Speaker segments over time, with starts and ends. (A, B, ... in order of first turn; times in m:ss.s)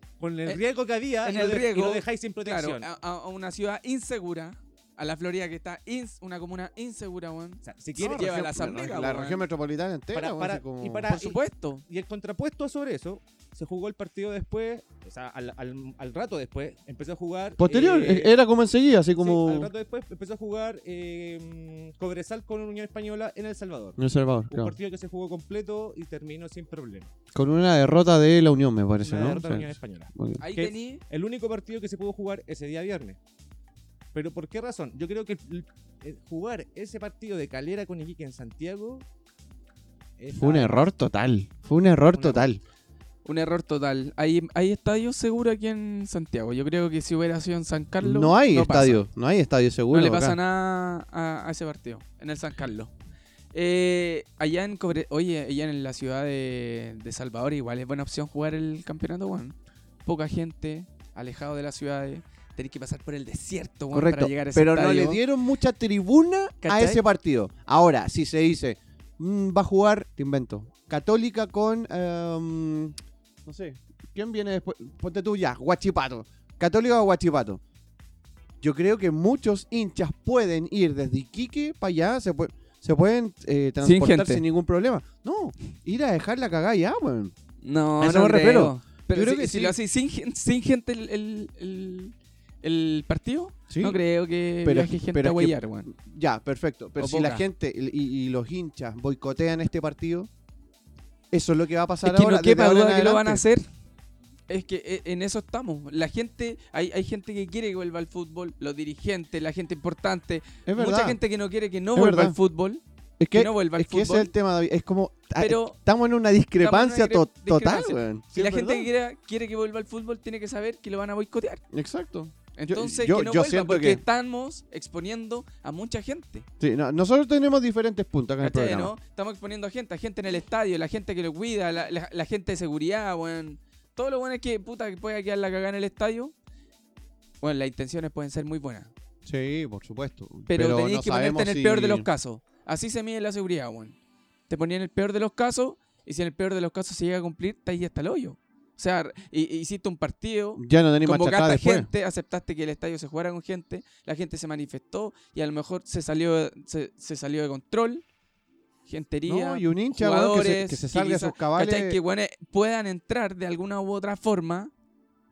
0:00.2-0:02.9 A
0:01.2-0:09.4 B
0:07.6-0:08.8 A
0:08.0-0:11.2 C
0:10.1-0:18.3 A
0:11.1-0:11.8 B
0:17.6-0:19.7 C
0:19.2-0:24.0 A
0:24.0-0:24.7 C
0:24.5-0:27.1 A
0:27.3-0:30.4 C
0:29.0-0:33.2 A
0:30.4-0:31.0 B
0:34.1-0:39.0 A
0:40.2-0:40.9 A
0:40.3-0:42.6 C
0:42.1-0:42.4 B
0:43.2-0:49.0 B
0:48.0-0:50.4 C
0:49.9-0:52.9 B
0:53.5-1:05.2 B
1:03.9-1:17.6 C
1:06.6-1:07.0 B
1:18.6-1:27.3 C
1:23.8-1:24.4 B
1:27.6-1:35.9 B
1:28.0-1:29.8 C
1:33.7-1:34.0 C
1:34.6-1:40.3 C
1:37.0-1:37.4 B
1:41.3-1:43.4 C
1:42.0-1:43.6 B
1:44.5-1:52.8 B
1:50.7-1:51.2 C
1:51.9-1:52.4 C
1:53.2-1:58.9 C
1:53.3-1:54.3 B
1:55.4-1:55.8 B
1:56.6-2:01.6 B
2:01.7-2:04.0 C
2:02.6-2:06.5 B
2:06.6-2:08.9 C
2:08.4-2:16.3 B
2:17.4-2:18.9 B
2:19.2-2:22.1 C
2:20.5-2:24.0 B
2:24.5-2:38.0 B
2:30.6-2:31.9 C
2:38.9-2:44.7 B
2:39.3-2:42.0 C